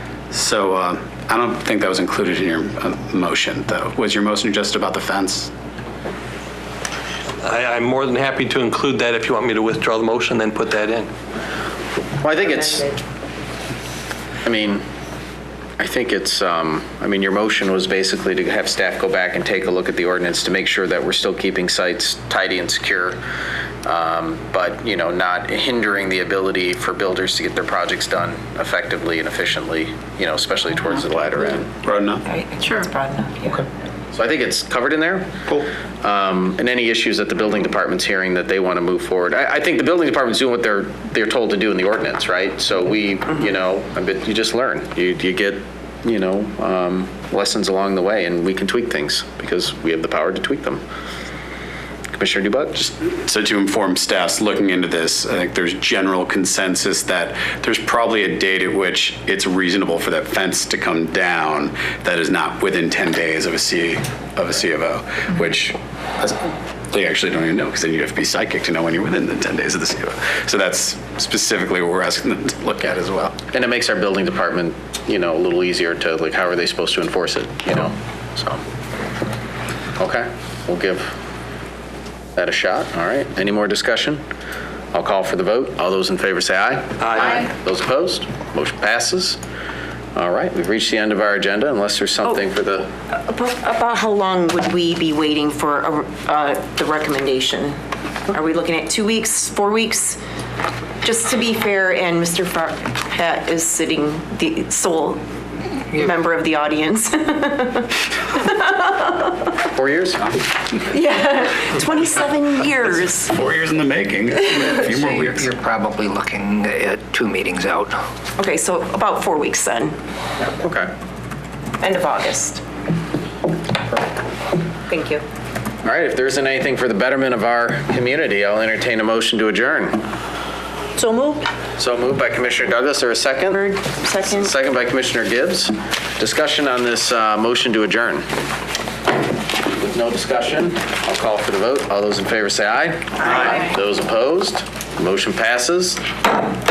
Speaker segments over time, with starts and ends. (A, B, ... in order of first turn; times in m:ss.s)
0:00.3-0:05.5 A
0:07.4-0:11.1 B
0:12.2-0:12.9 C
0:14.4-0:14.8 C
0:15.8-0:23.2 C
0:23.8-0:31.7 C
0:31.8-0:32.2 A
0:32.2-0:33.6 D
0:34.1-0:35.4 C
0:36.0-0:50.8 C
0:52.2-0:52.9 C
0:53.2-1:13.4 A
1:13.5-1:18.6 C
1:20.0-1:21.1 C
1:22.3-1:24.2 C
1:24.9-1:29.4 C
1:30.1-1:32.9 C
1:33.1-1:40.2 D
1:41.0-1:45.2 D
1:45.9-1:49.4 D
1:49.6-1:50.3 C
1:50.9-1:53.3 D
1:52.9-1:55.5 A
1:54.7-1:58.0 E
1:58.4-2:00.0 D
2:00.6-2:00.9 C
2:01.8-2:02.6 D
2:04.9-2:05.2 D
2:05.8-2:10.0 C
2:11.8-2:18.2 C
2:13.5-2:14.5 D
2:19.7-2:26.0 C